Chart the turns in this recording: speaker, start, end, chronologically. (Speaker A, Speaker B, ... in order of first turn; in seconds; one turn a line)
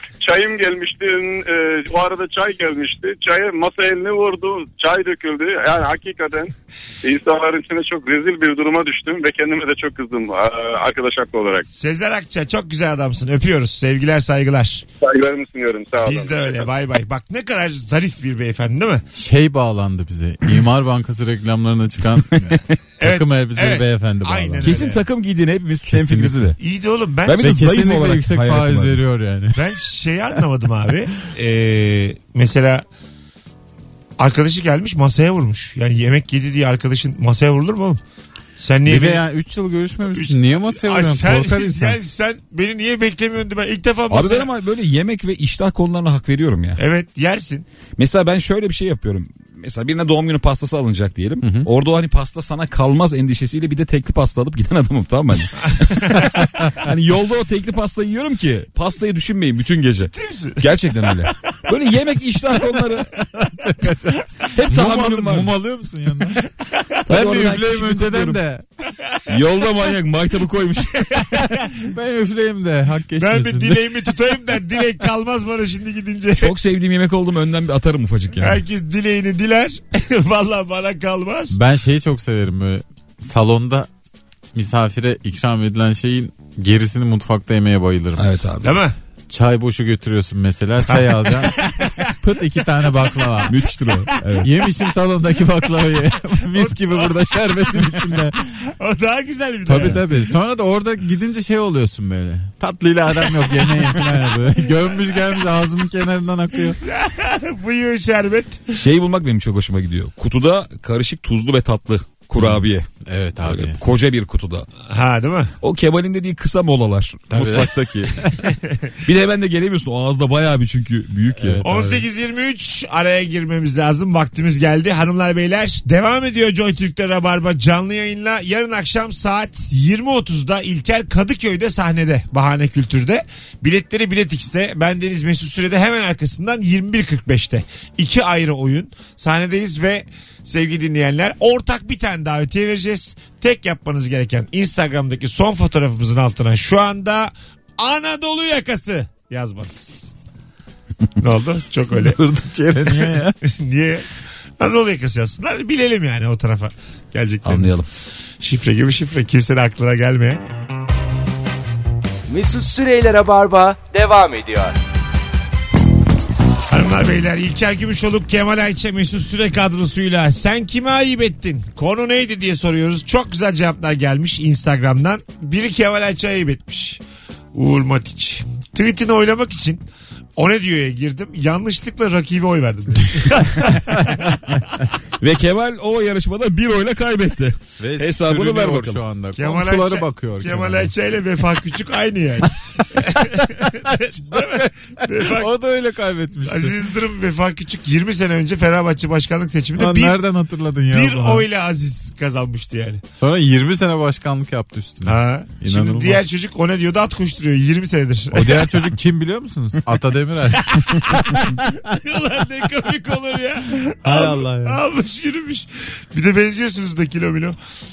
Speaker A: 0.2-11.7
Speaker B: 11.7-14.8
Speaker A: 15.0-16.7
Speaker B: 16.0-19.0
Speaker C: 19.1-24.7
Speaker D: 22.4-22.7
Speaker B: 23.0-25.0
Speaker D: 24.6-26.6
Speaker C: 25.9-26.5
Speaker B: 26.6-27.6
Speaker D: 27.2-29.0
Speaker C: 27.4-29.6
Speaker B: 29.5-32.8
Speaker B: 34.2-38.0
Speaker B: 38.6-39.2
Speaker C: 38.9-42.0
Speaker B: 40.1-44.5
Speaker D: 44.1-46.8
Speaker B: 46.8-47.6
Speaker D: 48.0-63.1
Speaker C: 51.4-51.7
Speaker B: 55.7-56.3
Speaker C: 56.3-56.7
Speaker B: 60.0-61.4
Speaker C: 63.2-66.4
Speaker D: 64.5-65.5
Speaker B: 66.6-67.0
Speaker D: 67.1-68.4
Speaker C: 67.1-68.6
Speaker D: 69.3-71.3
Speaker B: 70.9-71.7
Speaker C: 71.8-74.0
Speaker B: 73.2-76.5
Speaker D: 76.4-78.6
Speaker B: 78.4-81.6
Speaker C: 81.5-83.9
Speaker C: 84.5-88.2
Speaker D: 88.2-88.7
Speaker B: 88.6-89.0
Speaker C: 89.3-93.5
Speaker B: 90.8-92.1
Speaker D: 93.5-94.5
Speaker C: 94.4-98.4
Speaker B: 96.5-97.1
Speaker B: 98.6-100.1
Speaker C: 99.6-106.8
Speaker B: 106.8-108.8
Speaker D: 108.7-112.9
Speaker C: 112.4-113.8
Speaker D: 113.4-114.7
Speaker B: 114.8-115.5
Speaker D: 115.6-118.1
Speaker C: 117.3-118.4
Speaker B: 118.6-118.9
Speaker D: 119.0-121.6
Speaker C: 121.3-122.0
Speaker B: 121.6-150.1
Speaker B: 151.2-152.2
Speaker C: 151.9-153.4
Speaker B: 152.8-154.1
Speaker B: 154.6-157.8
Speaker D: 157.4-157.8
Speaker B: 158.4-160.4
Speaker E: 162.3-164.8
Speaker B: 166.7-177.0
Speaker B: 177.5-179.8
Speaker B: 180.4-184.3
Speaker C: 183.7-184.3
Speaker D: 185.2-189.0
Speaker C: 187.8-190.9
Speaker B: 189.3-195.5
Speaker C: 192.8-196.8
Speaker B: 196.4-200.2
Speaker C: 199.8-201.4
Speaker B: 200.9-203.0
Speaker C: 203.1-206.2
Speaker B: 205.0-208.8
Speaker C: 208.3-211.8
Speaker B: 210.7-217.6
Speaker C: 214.0-214.8